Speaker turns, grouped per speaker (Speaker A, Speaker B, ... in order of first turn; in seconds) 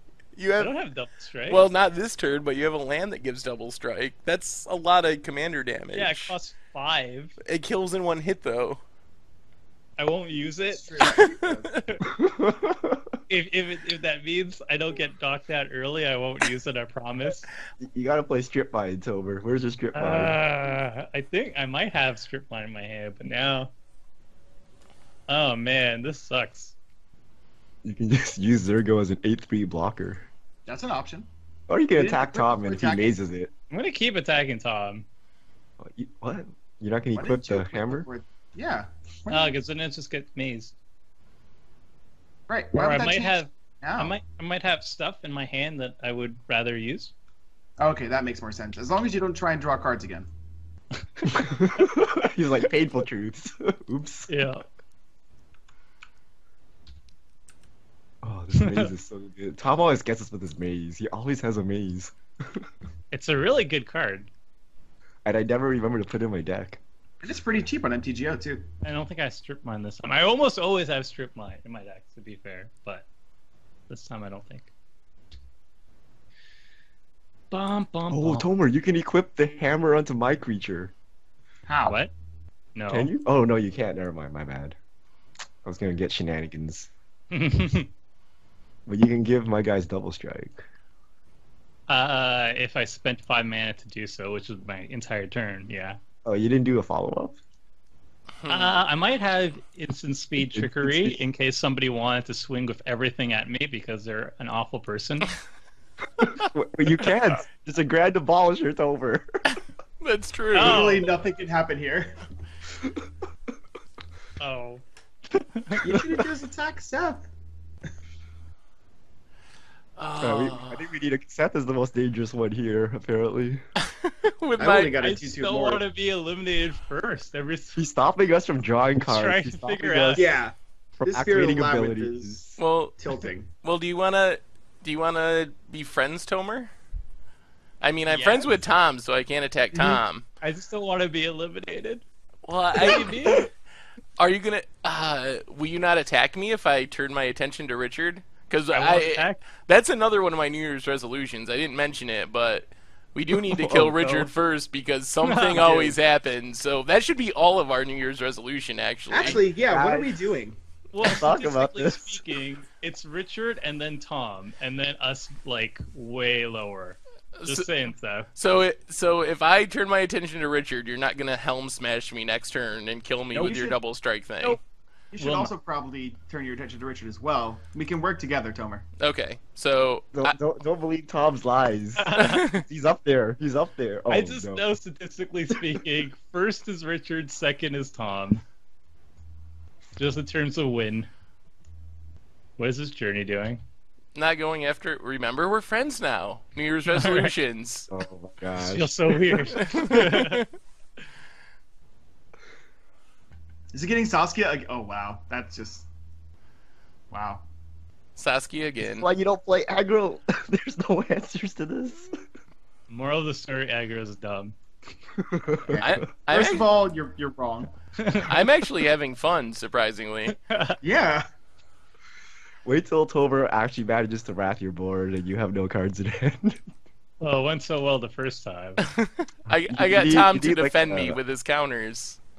Speaker A: 0.3-0.7, 1.5-6.3, 7.4-8.8, 11.0-11.8, 98.4-98.7, 110.0-111.0, 120.0-120.8, 123.8-125.0, 132.6-133.0, 133.6-136.7, 137.8-140.2, 142.4-143.4, 144.2-159.4, 167.3-167.7, 168.3-174.6, 179.0-180.3, 182.1-182.6, 194.1-197.9, 199.5-200.5, 208.2-209.1, 215.8-216.7, 218.2-220.3, 228.8-232.2
Speaker B: 0.6-1.7, 5.9-7.3, 10.0-11.2, 11.8-12.0, 13.3-17.5, 19.9-23.7, 25.3-26.8, 33.7-35.0, 39.3-40.7, 42.7-47.1, 54.3-54.6, 58.5-58.9, 63.1-64.3, 68.8-73.1, 73.9-74.7, 77.5-78.5, 81.8-82.1, 82.7-83.1, 87.3-87.9, 91.9-96.0, 98.5-105.3, 110.5-111.1, 114.4-114.8, 115.3-116.0, 125.0-127.8, 129.0-130.3, 138.1-138.5, 140.4-142.0, 142.8-143.5, 148.7-149.4, 154.0-154.3, 155.2-156.0, 160.9-168.3, 175.2-175.5, 182.0-182.5, 184.1-188.4, 190.0-191.1, 192.6-193.6, 196.9-197.3, 198.6-200.4, 212.9-214.5, 218.0-218.3, 220.3-220.8, 227.2-228.8
Speaker C: 10.7-11.7, 30.6-31.3, 31.9-33.1, 37.1-39.5, 42.5-44.2, 47.8-50.3, 67.2-68.7, 81.7-82.0, 110.5-112.1, 115.8-117.3, 124.6-125.8, 130.1-132.4, 133.0-133.5, 139.7-140.0, 142.9-143.4, 159.1-160.6, 173.3-173.8, 175.1-178.8, 203.7-205.9, 207.1-207.4, 215.7-217.7, 220.8-221.2
Speaker D: 12.1-13.1, 17.8-20.4, 27.8-30.2, 31.7-33.5, 35.8-38.1, 51.3-54.3, 58.2-62.7, 65.2-66.8, 78.1-80.9, 82.9-84.8, 85.6-86.9, 88.8-90.7, 96.2-97.4, 100.4-101.2, 106.2-109.4, 115.8-116.2, 120.2-123.6, 127.8-130.3, 131.0-132.6, 153.4-154.1, 159.3-160.1, 161.0-162.2, 180.1-184.7, 197.9-199.3, 208.8-212.1, 215.2-215.9, 222.6-226.6, 229.7-231.2